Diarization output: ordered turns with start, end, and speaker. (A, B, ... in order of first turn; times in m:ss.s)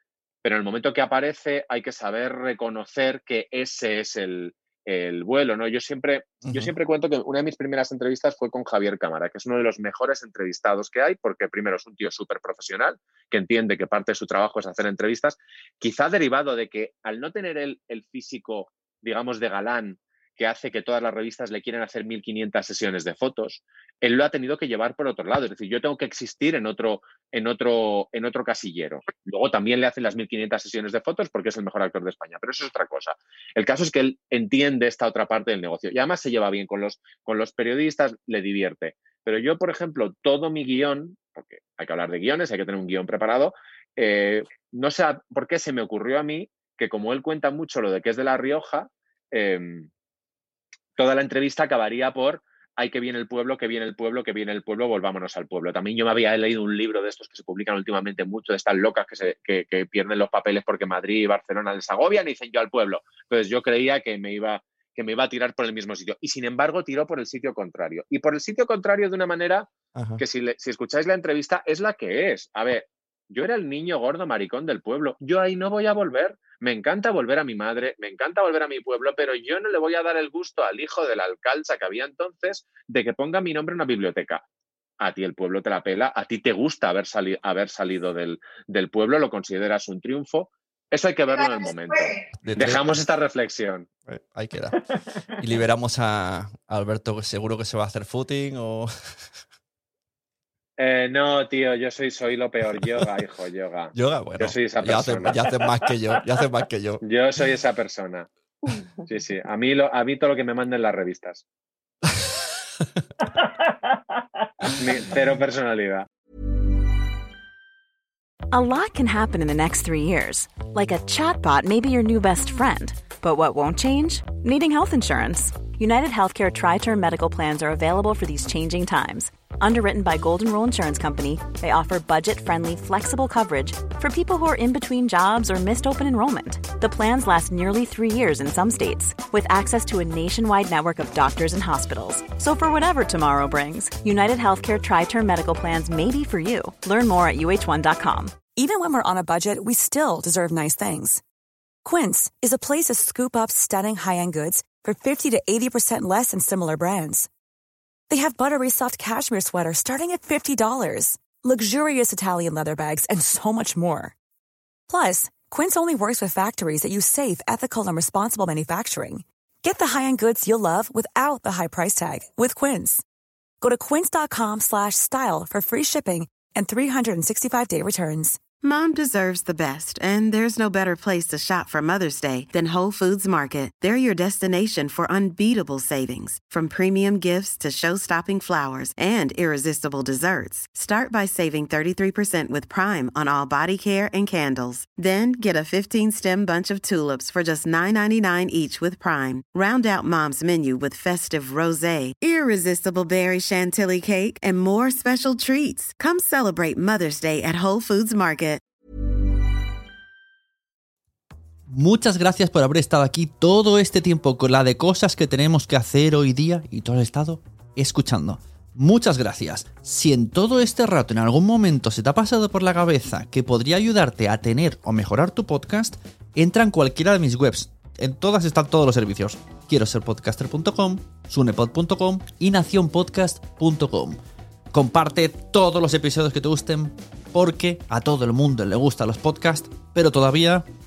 0:00.4-0:49.9 A
0:06.5-0:06.7 B
0:51.0-1:09.7 A
1:10.0-1:10.2 B
1:10.2-1:24.4 A
1:25.0-1:33.8 A
1:32.4-1:33.0 B
1:34.1-1:34.8 B
1:35.4-1:38.9 B
1:40.8-1:45.4 A
1:43.9-1:47.0 B
1:47.0-1:51.4 A
1:54.6-1:56.0 A
1:58.5-2:28.4 C
2:25.4-2:26.1 D
2:26.8-2:31.2 D
2:31.8-2:37.3 D
2:38.1-2:44.1 D
2:44.9-2:53.0 D
2:53.6-2:58.4 D
2:58.6-3:28.6 E
3:31.7-3:54.2 B
3:54.7-4:00.6 B